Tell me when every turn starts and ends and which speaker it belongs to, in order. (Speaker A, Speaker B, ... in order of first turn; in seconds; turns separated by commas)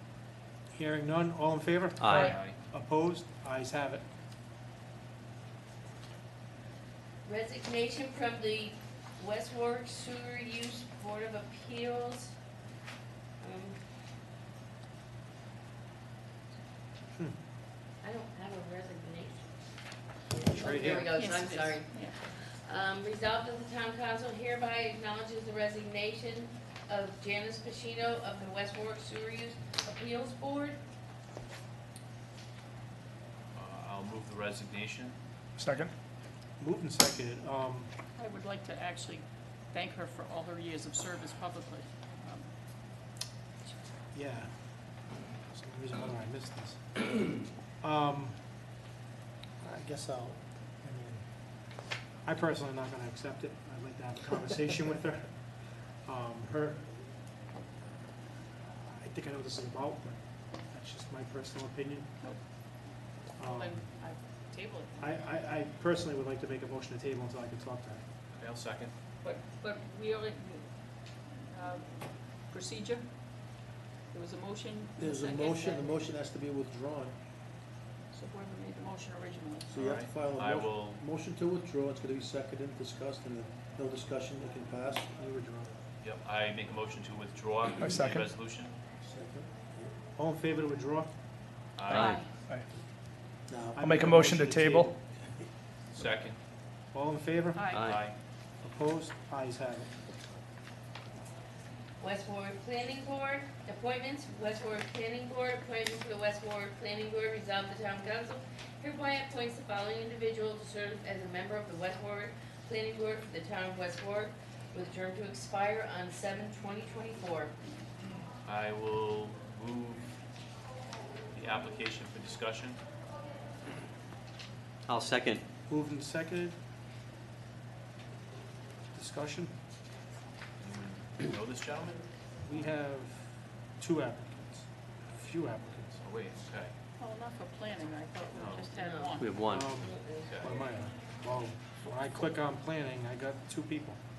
Speaker A: 0.7-4.0, Speaker B: 2.0-2.4, Speaker C: 2.1-2.6, Speaker D: 7.2-12.3, Speaker D: 13.4-13.8, Speaker D: 18.0-19.5, Speaker D: 20.3-30.8, Speaker A: 20.4-21.1, Speaker E: 21.0-22.2, Speaker C: 33.5-35.1, Speaker F: 35.6-35.9, Speaker A: 36.6-37.9, Speaker E: 38.1-42.4, Speaker A: 44.1-44.5, Speaker A: 45.5-48.4, Speaker A: 49.6-51.2, Speaker A: 52.2-55.3, Speaker A: 56.0-57.0, Speaker A: 58.9-62.1, Speaker A: 63.4-63.9, Speaker E: 63.4-65.1, Speaker A: 65.0-68.0, Speaker C: 68.3-68.9, Speaker E: 69.2-70.6, Speaker E: 71.5-71.8, Speaker E: 72.5-73.0, Speaker E: 74.1-75.8, Speaker G: 75.0-77.1, Speaker E: 78.1-79.7, Speaker G: 79.7-85.2, Speaker C: 79.8-81.0, Speaker A: 85.2-85.7, Speaker C: 86.0-88.7, Speaker F: 87.8-88.3, Speaker G: 89.0-89.9, Speaker A: 90.2-91.1, Speaker C: 91.8-92.2, Speaker B: 91.9-92.2, Speaker E: 92.0-92.3, Speaker G: 93.5-93.8, Speaker A: 93.7-94.9, Speaker F: 93.8-94.9, Speaker C: 95.9-96.4, Speaker A: 96.9-97.7, Speaker E: 97.5-98.0, Speaker B: 97.7-98.0, Speaker C: 97.8-98.2, Speaker A: 98.6-99.9, Speaker D: 102.0-117.5, Speaker C: 118.4-120.1, Speaker C: 121.3-122.8, Speaker B: 124.9-125.4, Speaker A: 125.7-126.5, Speaker A: 128.9-129.5, Speaker C: 130.6-132.0, Speaker A: 132.4-135.9, Speaker C: 135.9-136.7, Speaker E: 137.0-139.4, Speaker C: 138.3-138.7, Speaker D: 138.7-140.7, Speaker B: 139.2-139.7, Speaker A: 139.4-144.0, Speaker C: 140.2-140.5